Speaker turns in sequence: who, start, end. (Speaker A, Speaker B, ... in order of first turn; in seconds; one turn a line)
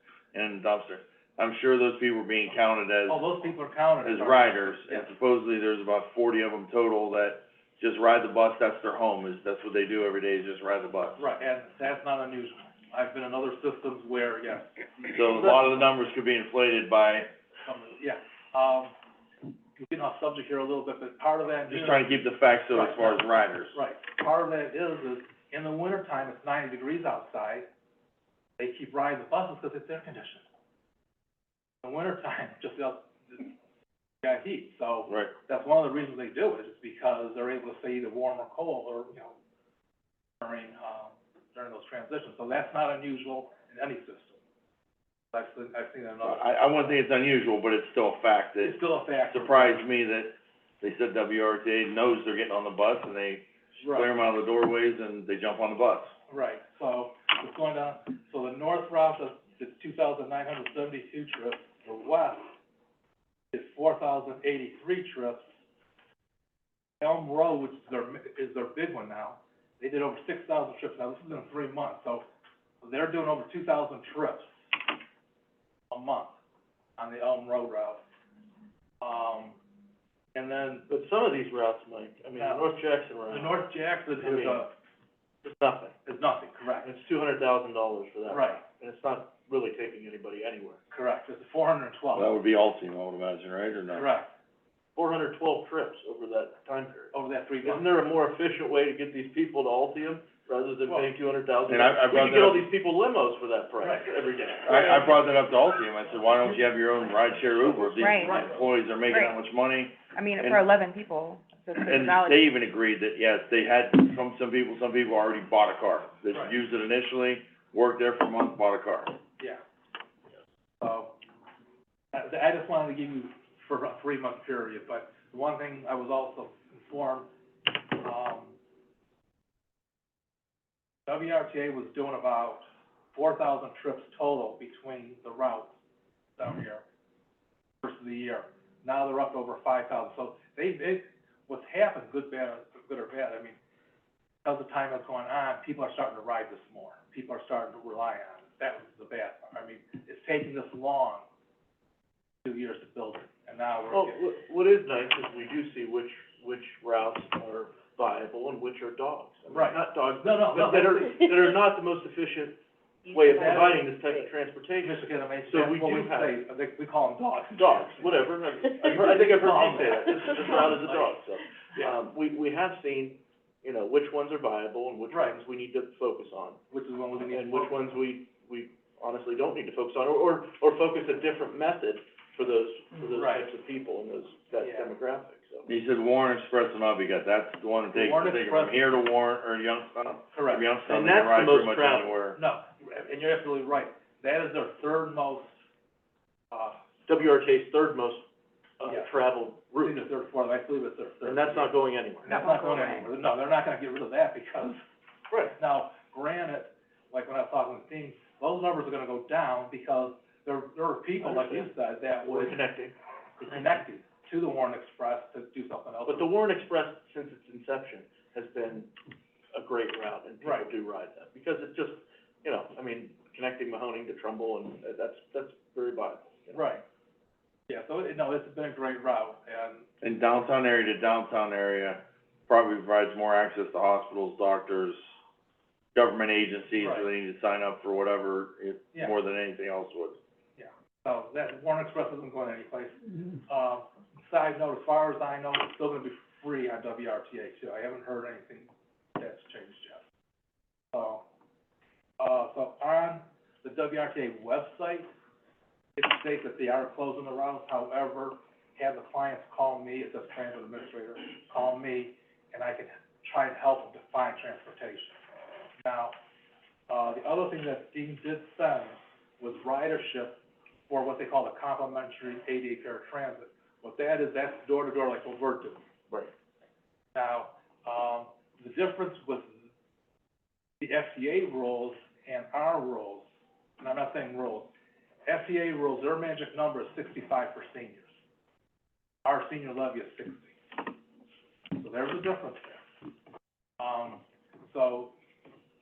Speaker A: 0.3-3.2
Speaker B: 3.1-5.1
Speaker A: 4.0-11.2
Speaker B: 11.2-15.9
Speaker A: 15.1-17.3
Speaker B: 17.7-18.9
Speaker B: 19.8-27.7
Speaker A: 21.7-23.8
Speaker B: 28.6-30.4
Speaker B: 31.8-33.5
Speaker B: 34.2-39.4
Speaker A: 35.1-35.3
Speaker B: 40.4-44.4
Speaker B: 45.3-47.0
Speaker A: 46.2-56.1
Speaker B: 48.6-49.9
Speaker B: 53.8-54.2
Speaker B: 56.3-62.5
Speaker B: 63.5-65.5
Speaker B: 67.0-72.2
Speaker B: 72.8-75.0
Speaker B: 75.9-76.4
Speaker B: 77.0-78.0
Speaker B: 79.0-79.6
Speaker B: 80.3-80.9
Speaker C: 80.9-84.7
Speaker B: 82.4-82.7
Speaker B: 83.3-84.7
Speaker C: 85.4-86.0
Speaker B: 86.1-86.9
Speaker C: 86.8-90.8
Speaker B: 88.3-88.6
Speaker B: 90.9-92.4
Speaker A: 92.2-94.1
Speaker B: 93.9-94.3
Speaker C: 95.0-104.7
Speaker B: 97.1-97.9
Speaker A: 101.7-102.7
Speaker B: 103.8-104.1
Speaker A: 104.7-110.6
Speaker D: 104.7-105.1
Speaker D: 107.8-108.3
Speaker B: 108.2-108.5
Speaker D: 109.0-109.3
Speaker D: 110.1-112.5
Speaker A: 111.9-119.1
Speaker B: 120.8-121.2
Speaker B: 122.1-128.6
Speaker B: 131.1-135.8
Speaker B: 136.4-136.8
Speaker B: 137.8-143.6
Speaker B: 144.4-151.2
Speaker B: 152.4-154.2
Speaker C: 153.9-162.6
Speaker B: 159.5-161.2
Speaker D: 163.0-164.3
Speaker C: 163.1-166.5
Speaker B: 163.4-163.7
Speaker B: 164.8-171.2
Speaker C: 167.6-176.6
Speaker D: 170.2-170.7
Speaker B: 175.1-175.4
Speaker B: 176.7-177.9
Speaker C: 177.2-185.7
Speaker B: 183.1-183.5
Speaker B: 184.6-184.9
Speaker A: 185.7-192.4
Speaker B: 187.9-189.0
Speaker B: 190.3-190.8
Speaker C: 190.9-192.2
Speaker B: 192.3-195.6
Speaker B: 196.5-196.8
Speaker C: 197.1-198.2
Speaker C: 198.8-200.0
Speaker B: 198.8-199.1
Speaker B: 199.8-204.8
Speaker C: 201.2-202.4
Speaker D: 202.3-203.1
Speaker C: 205.3-205.6
Speaker B: 205.6-212.6
Speaker C: 211.2-211.7
Speaker C: 212.2-213.0
Speaker B: 213.4-216.3
Speaker C: 213.5-213.8
Speaker C: 216.1-218.9
Speaker C: 219.5-226.7
Speaker B: 220.4-220.7
Speaker B: 226.5-226.8
Speaker B: 227.7-229.9
Speaker A: 230.0-235.0
Speaker A: 235.9-240.2
Speaker B: 236.7-237.1
Speaker B: 240.6-250.0
Speaker B: 250.9-251.2
Speaker B: 252.2-255.1
Speaker B: 256.0-265.2
Speaker B: 265.8-266.1
Speaker B: 266.9-275.8
Speaker B: 277.1-279.5
Speaker B: 280.8-283.3
Speaker B: 283.8-284.7
Speaker B: 285.3-288.1
Speaker B: 289.2-291.0
Speaker B: 291.7-292.9
Speaker B: 293.8-295.1